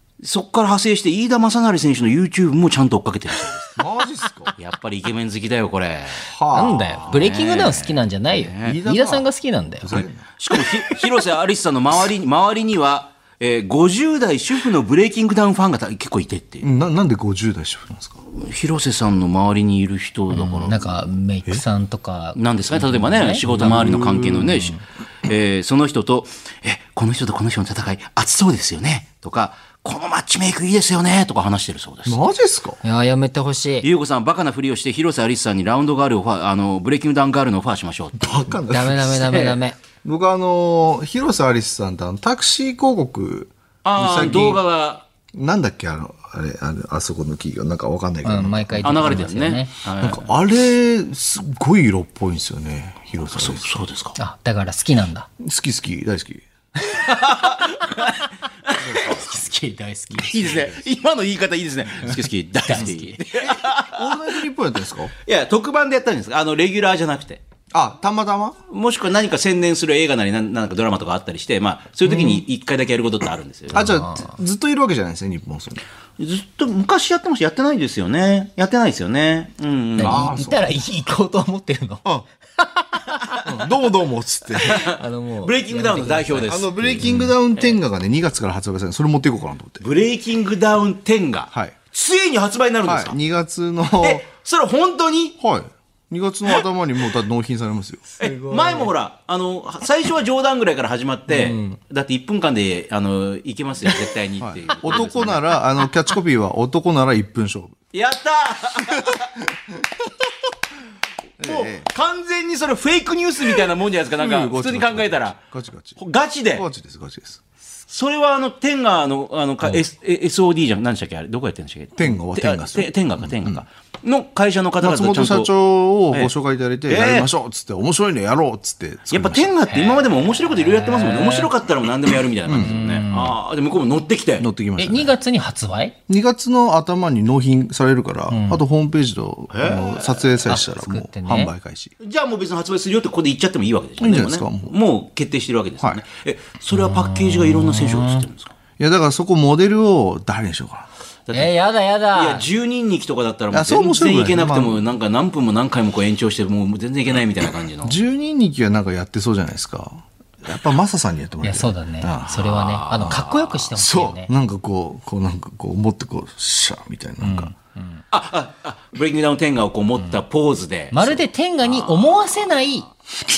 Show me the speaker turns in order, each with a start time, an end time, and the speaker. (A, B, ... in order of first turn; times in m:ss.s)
0:00.2-0:03.8 A
0:03.8-0:04.5 B
0:04.6-0:06.3 A
0:06.2-0:07.2 B
0:06.5-0:10.0 C
0:07.0-0:08.8 A
0:08.6-0:09.3 B
0:09.8-0:10.3 B
0:09.9-0:16.6 A
0:16.6-0:18.2 B
0:18.3-0:21.0 A
0:20.3-0:24.8 C
0:22.4-0:32.2 A
0:23.4-0:24.6 B
0:32.1-0:32.8 B
0:32.8-0:33.9 C
0:33.8-0:38.3 A
0:38.2-0:39.4 B
0:38.6-0:39.8 C
0:39.1-0:39.6 A
0:40.0-0:44.6 B
0:43.8-0:45.0 A
0:45.3-0:49.3 B
0:48.2-0:49.7 C
0:48.8-0:50.2 A
0:50.0-0:53.7 B
0:53.3-0:54.2 A
0:54.2-0:55.3 C
0:55.4-0:56.4 B
0:56.9-0:58.2 C
0:56.9-0:59.2 A
0:58.8-1:00.7 C
0:58.8-0:59.2 B
1:00.2-1:04.3 A
1:02.7-1:03.2 C
1:02.8-1:05.1 B
1:05.3-1:07.4 A
1:07.7-1:08.6 B
1:08.7-1:13.9 A
1:12.1-1:12.4 B
1:13.7-1:15.8 B
1:13.7-1:14.3 C
1:16.2-1:20.3 A
1:20.0-1:22.0 C
1:20.0-1:20.7 B
1:22.6-1:23.4 C
1:23.4-1:24.8 B
1:24.6-1:27.3 C
1:24.6-1:27.1 A
1:26.5-1:29.8 B
1:29.8-1:33.2 A
1:32.9-1:34.2 B
1:34.0-1:35.4 A
1:35.4-1:38.1 B
1:38.2-1:38.9 C
1:38.2-1:45.5 A
1:41.3-1:41.8 C
1:44.4-1:47.8 B
1:47.9-1:49.4 A
1:51.4-1:51.9 B
1:51.4-1:55.4 A
1:54.2-1:56.0 B
1:56.0-1:56.7 A
1:56.5-1:57.4 B
1:57.9-2:05.5 A
2:02.0-2:03.6 B
2:04.8-2:09.5 B
2:06.9-2:07.3 A
2:09.1-2:14.5 A
2:09.7-2:11.5 C
2:12.5-2:12.8 B
2:12.6-2:13.4 C
2:14.4-2:15.2 B
2:14.8-2:16.0 C
2:16.1-2:21.9 B
2:18.3-2:18.6 C
2:19.5-2:20.6 A
2:20.5-2:21.5 C
2:22.0-2:28.6 A
2:24.0-2:24.8 B
2:26.7-2:28.3 C
2:28.8-2:30.9 B
2:31.3-2:31.5 A
2:31.3-2:32.4 C
2:32.1-2:38.0 A
2:33.5-2:34.8 B
2:37.8-2:42.5 B
2:41.4-2:44.3 C
2:42.3-2:43.8 A
2:43.8-2:47.5 B
2:47.2-2:48.0 C
2:48.1-2:52.8 A
2:50.9-2:52.9 C